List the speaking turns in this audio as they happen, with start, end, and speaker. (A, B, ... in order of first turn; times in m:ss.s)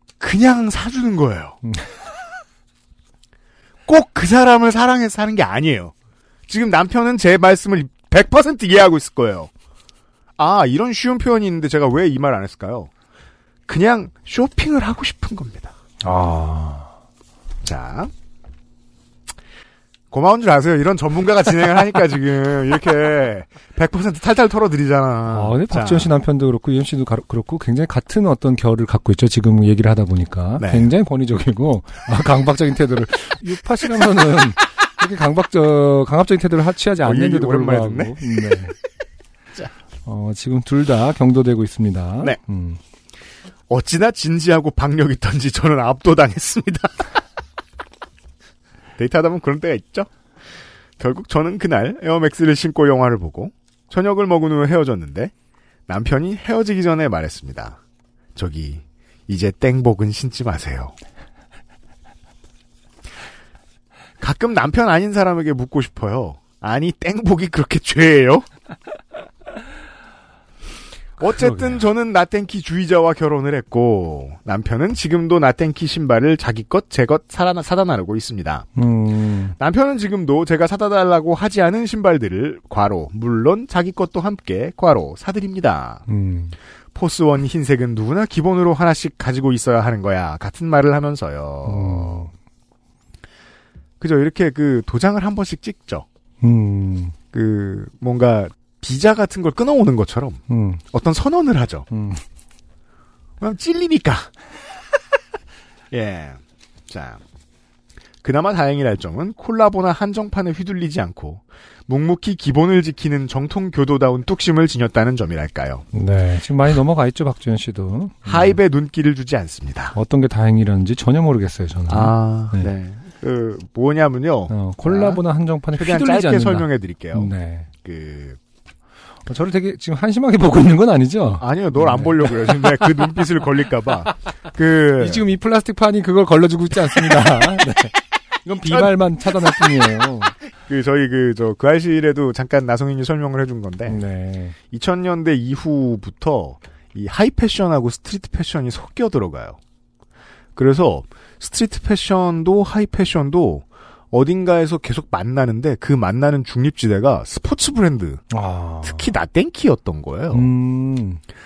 0:00.2-0:01.6 A
0:03.9-0:05.9 A
0:06.5-0:09.5 A
0:10.4-0:12.9 A
0:13.7-0:15.7 A
0:16.0-0:16.9 B
0:17.6-0:18.1 A
0:20.1-0:26.1 A
0:25.3-0:38.7 B
0:30.6-0:30.9 A
0:37.0-0:38.6 A
0:40.0-0:42.8 B
0:43.7-0:47.1 A
0:49.0-0:50.1 A
0:51.0-0:55.3 A
0:55.9-0:57.8 A
0:58.4-1:01.0 A
1:04.2-1:08.5 A
1:11.2-1:11.8 B
1:11.2-1:18.7 A
1:18.8-1:19.6 B
1:19.6-1:26.0 A
1:26.1-1:26.6 B
1:26.9-1:32.3 A
1:31.6-1:32.3 B
1:34.0-1:36.1 A
1:36.4-1:37.2 B
1:37.3-1:41.9 A
1:40.5-1:40.8 B
1:41.9-1:42.2 B
1:43.4-1:44.3 A
1:45.9-1:47.2 A
1:48.2-1:55.8 A
1:55.9-1:58.6 B
1:58.2-2:00.0 A
1:59.9-2:02.7 B
2:01.9-2:05.2 A
2:04.5-2:07.7 B
2:05.7-2:07.3 A
2:07.8-2:08.4 A
2:09.3-2:13.0 B
2:11.4-2:15.2 A
2:15.0-2:20.4 B
2:18.6-2:18.9 A
2:20.7-2:24.0 A
2:23.9-2:24.6 B
2:24.7-2:29.6 A
2:30.6-2:38.3 A
2:38.3-2:39.1 B
2:38.8-2:40.5 A
2:40.3-2:41.2 B